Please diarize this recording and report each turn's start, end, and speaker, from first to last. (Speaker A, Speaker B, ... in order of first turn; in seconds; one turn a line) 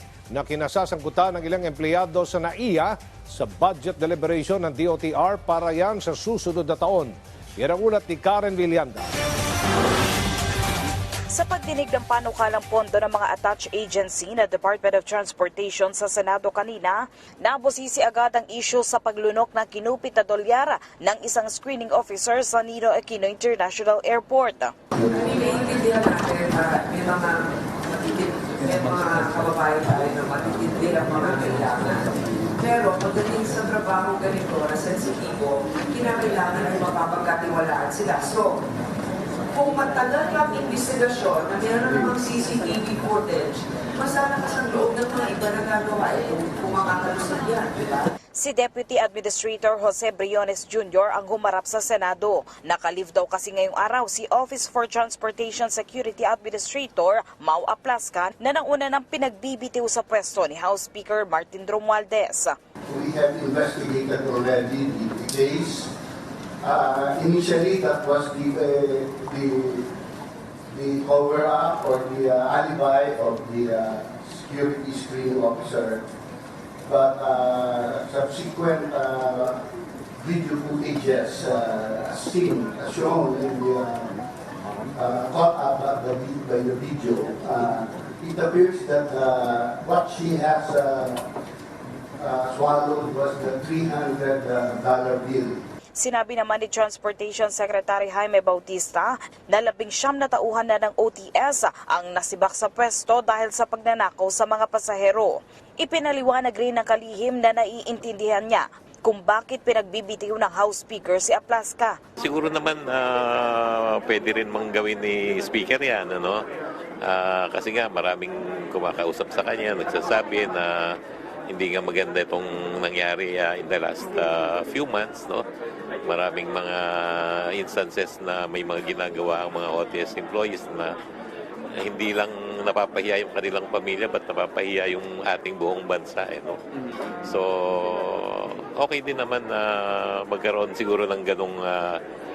Speaker A: 0.3-9.1
Speaker B: 11.3-24.7
Speaker C: 25.2-38.6
Speaker C: 39.5-48.1
Speaker B: 48.4-62.5
Speaker D: 62.9-65.9
Speaker D: 66.6-69.9
Speaker D: 70.7-76.0
Speaker D: 76.9-79.6
Speaker D: 80.2-84.1
Speaker D: 85.0-91.3
Speaker D: 92.2-95.6
Speaker B: 96.0-112.0
Speaker E: 112.2-116.4
Speaker E: 117.0-120.8
Speaker E: 121.5-125.4
Speaker E: 126.1-130.9
Speaker E: 131.8-136.6
Speaker E: 137.2-142.0